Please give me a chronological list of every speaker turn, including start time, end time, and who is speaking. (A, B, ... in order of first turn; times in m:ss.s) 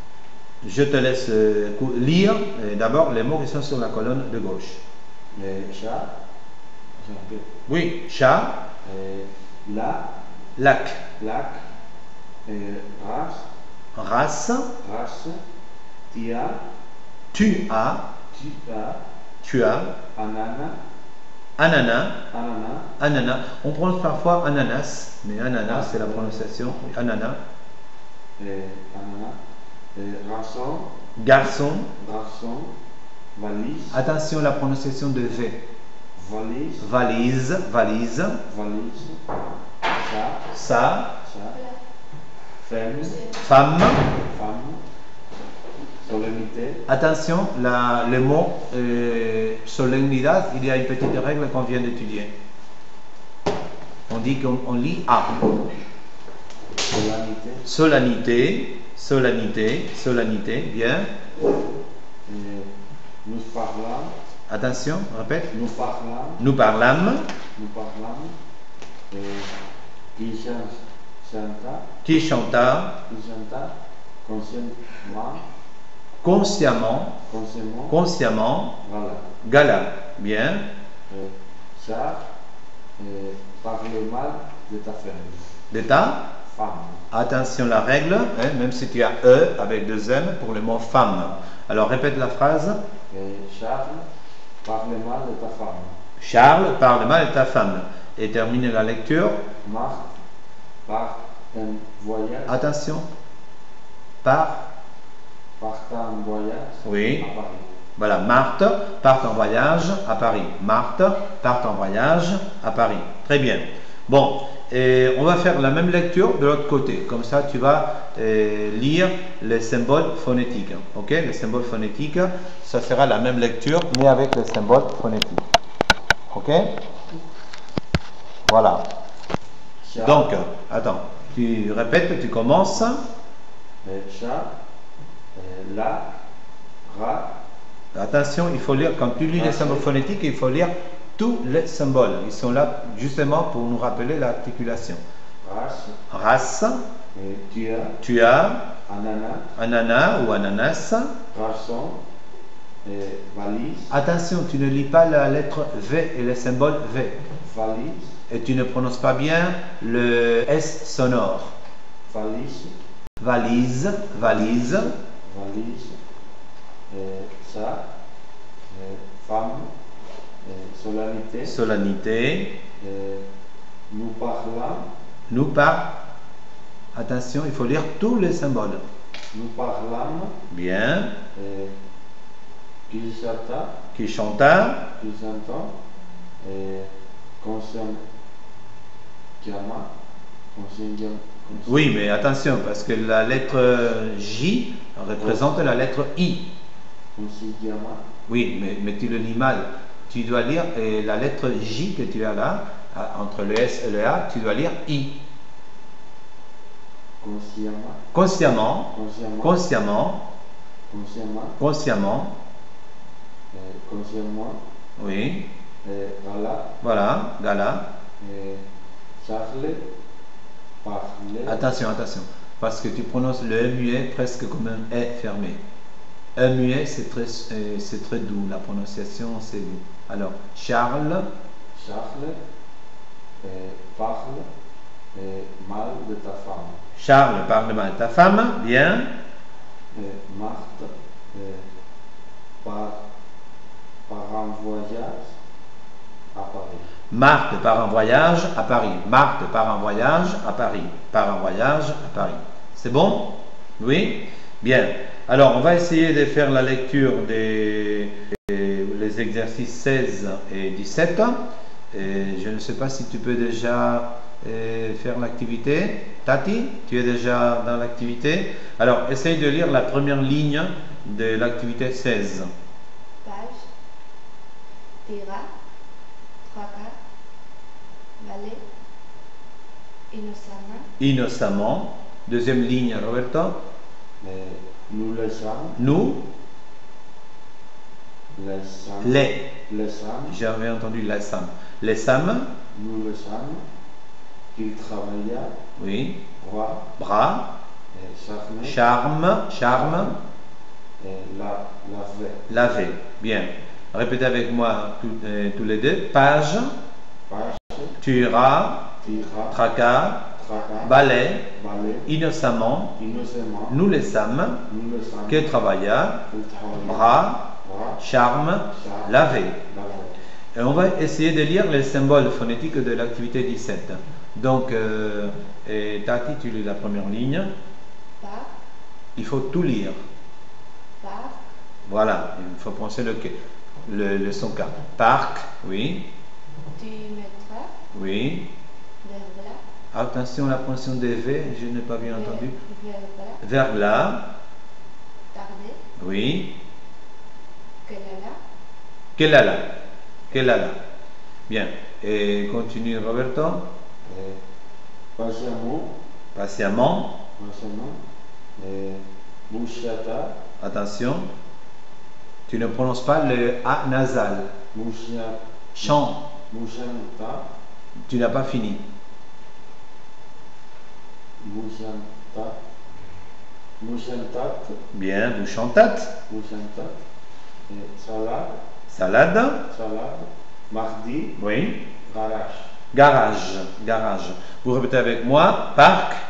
0:00.6-0:04.8 A
0:05.3-0:06.1 B
0:07.0-0:07.4 B
0:07.7-0:08.6 A
0:08.8-0:10.1 B
0:10.6-0:11.0 A
0:11.2-0:11.6 B
0:12.4-0:13.5 B
0:13.9-0:14.7 A
0:14.8-0:15.4 B
0:16.1-0:16.6 B
0:17.3-0:18.0 A
0:18.3-0:19.0 B
0:19.4-0:19.9 A
0:20.1-0:20.8 B
0:21.6-0:22.2 A
0:22.3-0:22.9 B
0:23.0-0:27.4 A
0:25.6-0:26.6 B
0:28.4-0:29.4 B
0:29.9-0:30.9 B
0:31.2-0:31.9 A
0:32.0-0:32.7 B
0:33.3-0:34.0 B
0:33.9-0:35.6 A
0:36.2-0:36.8 B
0:36.8-0:38.4 A
0:38.5-0:39.2 B
0:39.9-0:40.5 B
0:40.5-0:41.2 A
0:41.2-0:41.6 B
0:42.6-0:43.2 B
0:43.4-0:44.0 A
0:44.2-0:44.8 B
0:46.0-0:46.8 B
0:46.9-0:52.3 A
0:54.1-0:55.5 A
0:56.9-0:57.6 B
0:57.6-1:01.1 A
1:02.2-1:02.7 B
1:03.2-1:04.1 B
1:04.5-1:05.5 A
1:05.5-1:06.4 B
1:06.4-1:07.2 A
1:07.5-1:08.4 B
1:09.1-1:09.5 B
1:10.1-1:11.9 B
1:12.0-1:13.0 A
1:13.1-1:15.4 B
1:16.2-1:17.2 A
1:17.3-1:18.0 B
1:17.9-1:18.8 A
1:18.8-1:19.3 B
1:19.4-1:20.6 A
1:21.1-1:22.2 B
1:23.0-1:25.4 B
1:25.7-1:26.2 A
1:26.4-1:27.0 B
1:27.1-1:32.8 A
1:33.1-1:34.0 B
1:34.6-1:35.9 B
1:36.2-1:39.4 A
1:39.6-1:40.1 B
1:40.8-1:42.6 B
1:42.5-1:43.1 A
1:44.2-1:44.6 A
1:45.6-1:47.7 B
1:46.8-1:47.3 A
1:48.0-2:05.4 A
2:06.3-2:06.7 A
2:08.5-2:08.8 A
2:09.8-2:10.3 B
2:10.0-2:13.0 A
2:13.8-2:14.5 B
2:15.3-2:16.1 B
2:16.8-2:17.3 B
2:17.9-2:25.0 A
2:19.3-2:19.9 B
2:25.4-2:26.0 B
2:26.1-2:26.8 A
2:27.1-2:28.0 B
2:28.0-2:28.6 A
2:28.9-2:29.5 B
2:29.6-2:31.1 A
2:31.3-2:32.0 B
2:32.8-2:33.9 B
2:33.9-2:37.2 A
2:37.4-2:38.1 B
2:38.3-2:41.5 A
2:42.1-2:42.7 B
2:43.2-2:44.9 A
2:45.2-2:46.0 B
2:46.9-2:47.9 B
2:48.7-2:49.7 B
2:50.4-2:51.6 B
2:51.4-2:52.5 A
2:52.8-2:53.2 B
2:53.9-2:54.9 B
2:55.3-2:55.9 A
2:56.9-2:58.8 A
2:59.3-3:00.3 B
3:00.5-3:01.1 A
3:01.3-3:01.7 B
3:02.9-3:03.8 B
3:03.9-3:04.8 A
3:05.0-3:05.7 B
3:06.4-3:08.0 B
3:09.4-3:09.9 B
3:10.5-3:11.8 B
3:11.6-3:16.5 A
3:15.2-3:15.5 B
3:17.1-3:18.0 B
3:18.3-3:25.1 A
3:27.2-3:28.0 B
3:28.1-3:28.9 A
3:28.9-3:29.6 B
3:29.4-3:30.2 A
3:30.9-3:31.6 B
3:31.6-3:32.3 A
3:33.5-3:34.6 B
3:35.0-3:35.4 A
3:35.8-3:36.7 B
3:36.8-3:37.9 A
3:38.2-3:38.6 B
3:39.2-3:39.8 B
3:40.8-3:41.6 B
3:41.5-3:45.6 A
3:46.4-3:51.3 A
3:51.7-3:52.4 B
3:53.4-3:54.4 B
3:55.1-3:56.8 B
3:57.0-3:59.1 A
3:59.9-4:01.6 B
4:02.6-4:03.0 B
4:04.1-4:05.3 B
4:06.3-4:06.9 B
4:07.1-4:21.4 A
4:21.9-4:32.5 A
4:33.2-4:33.6 C
4:35.0-4:35.5 C
4:36.4-4:37.0 C
4:38.2-4:38.6 C
4:40.1-4:40.9 C
4:41.0-4:43.6 A
4:44.2-4:45.8 B
4:45.7-4:46.2 A
4:48.3-4:50.4 B
4:49.0-4:49.5 A
4:50.3-4:52.5 A
4:52.7-4:53.6 B
4:54.5-4:55.5 B
4:55.8-4:56.2 A
4:56.4-4:56.8 B
4:57.0-4:57.5 A
4:57.9-4:58.8 B
4:58.6-5:00.2 A
4:59.7-5:00.1 B
5:01.0-5:02.4 B
5:02.5-5:06.7 A
5:07.3-5:08.0 B
5:08.0-5:09.0 A
5:09.0-5:09.6 B
5:09.5-5:10.3 A
5:10.3-5:11.0 B
5:10.8-5:11.5 A
5:11.5-5:12.1 B
5:12.0-5:13.0 A
5:13.0-5:13.8 B
5:13.7-5:14.6 A
5:14.7-5:15.5 B
5:15.3-5:16.2 A
5:16.3-5:18.0 B
5:16.8-5:19.6 A
5:18.7-5:20.2 B
5:20.5-5:27.5 A
5:28.2-5:28.5 C
5:29.2-5:30.0 A
5:31.0-5:31.4 C
5:31.8-5:36.1 A
5:36.8-5:37.7 C
5:37.9-5:38.5 A
5:39.0-5:39.6 C
5:39.9-5:42.5 A
5:42.1-5:43.4 C
5:43.4-5:44.3 A
5:45.3-5:45.8 C
5:46.0-5:46.5 A
5:47.8-5:48.4 C
5:49.2-5:49.7 A
5:50.3-5:50.8 A
5:51.5-5:53.7 A
5:54.0-5:54.4 B
5:55.2-5:55.9 B
5:56.3-5:57.1 A
5:57.4-5:58.0 B
5:58.6-6:00.3 B
6:00.6-6:01.3 A
6:02.5-6:04.5 A
6:04.7-6:05.9 B
6:05.8-6:06.2 A
6:06.5-6:07.5 B
6:08.1-6:08.8 A
6:11.4-6:12.6 B
6:13.8-6:14.8 B
6:14.9-6:16.1 A
6:16.3-6:17.0 B
6:17.7-6:18.6 B
6:18.9-6:19.6 A
6:19.7-6:21.4 B
6:21.4-6:21.8 A
6:22.0-6:22.7 B
6:22.9-6:26.2 A